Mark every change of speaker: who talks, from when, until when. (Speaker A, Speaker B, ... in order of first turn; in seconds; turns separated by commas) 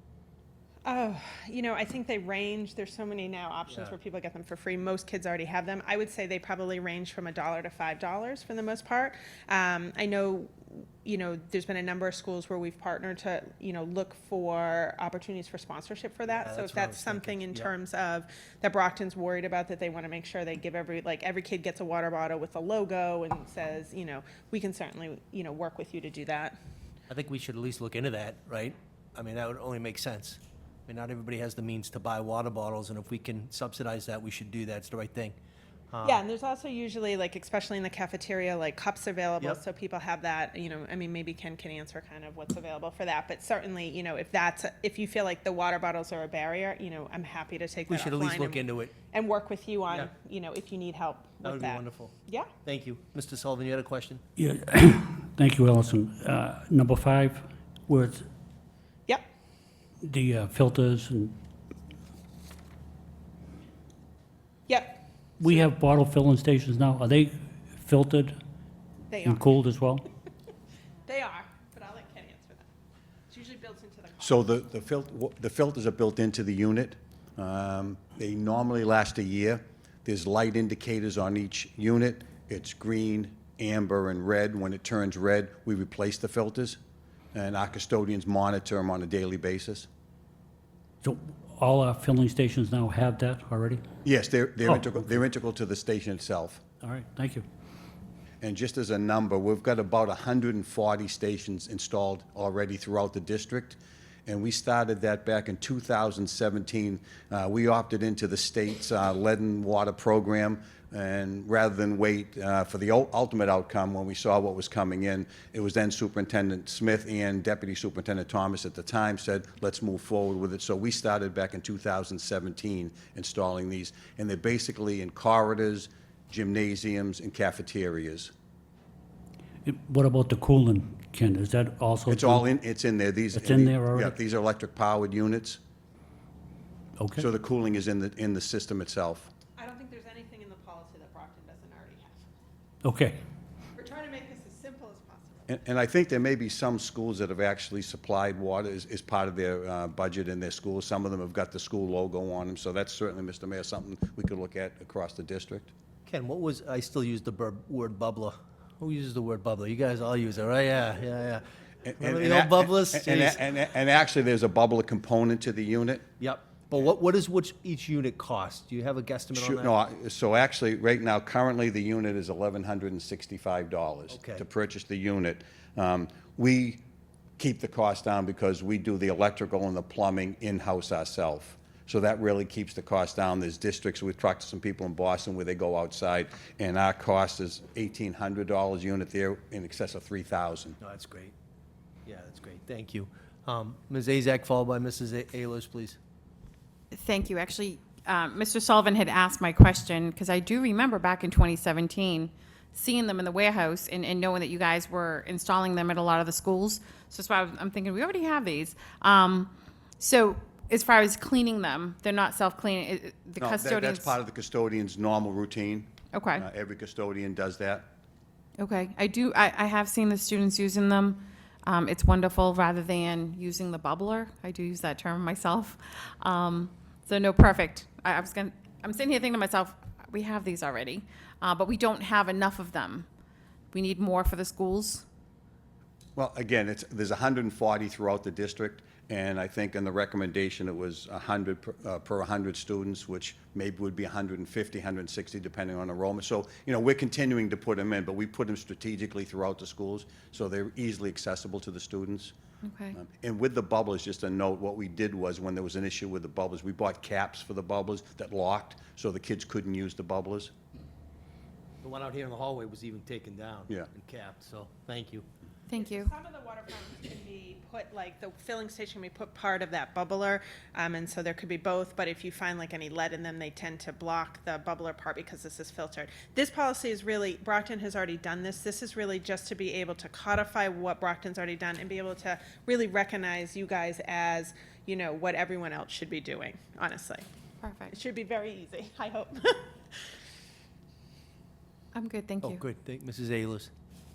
Speaker A: 0.8-26.5, Speaker B: 16.4-17.7, Speaker B: 27.1-35.4, Speaker B: 35.9-36.2, Speaker A: 36.0-52.5, Speaker B: 47.9-48.9, Speaker B: 51.4-54.2, Speaker C: 54.4-58.2, Speaker C: 60.0-61.4, Speaker A: 64.7-65.6, Speaker C: 65.4-68.4, Speaker A: 69.1-69.6, Speaker C: 69.2-70.1, Speaker A: 71.1-72.6, Speaker A: 73.3-74.4, Speaker D: 74.2-86.8, Speaker D: 87.3-89.9, Speaker C: 91.0-93.8, Speaker D: 94.0-96.6, Speaker C: 94.6-95.2, Speaker C: 96.8-97.5, Speaker D: 98.4-128.3, Speaker C: 129.6-132.5, Speaker D: 132.1-135.6, Speaker C: 133.3-134.1, Speaker C: 137.0-137.3, Speaker D: 137.2-139.3, Speaker A: 139.6-142.2, Speaker C: 142.8-143.2, Speaker A: 143.8-145.5, Speaker D: 145.5-155.7, Speaker B: 156.1-161.4, Speaker D: 161.8-166.1, Speaker B: 162.0-163.4, Speaker B: 166.2-169.7, Speaker D: 169.3-176.8, Speaker B: 174.1-174.4, Speaker D: 177.4-190.8, Speaker B: 190.8-191.3, Speaker B: 192.1-196.0, Speaker E: 196.9-214.1, Speaker D: 213.4-217.9, Speaker E: 216.1-216.4, Speaker E: 218.6-233.1, Speaker E: 233.7-235.0, Speaker D: 236.2-252.3, Speaker E: 252.6-253.0, Speaker D: 252.9-260.5, Speaker B: 261.8-265.2, Speaker E: 265.7-266.1, Speaker A: 265.7-287.2, Speaker E: 287.6-287.9, Speaker A: 287.9-289.7, Speaker E: 291.9-292.6, Speaker B: 292.4-293.7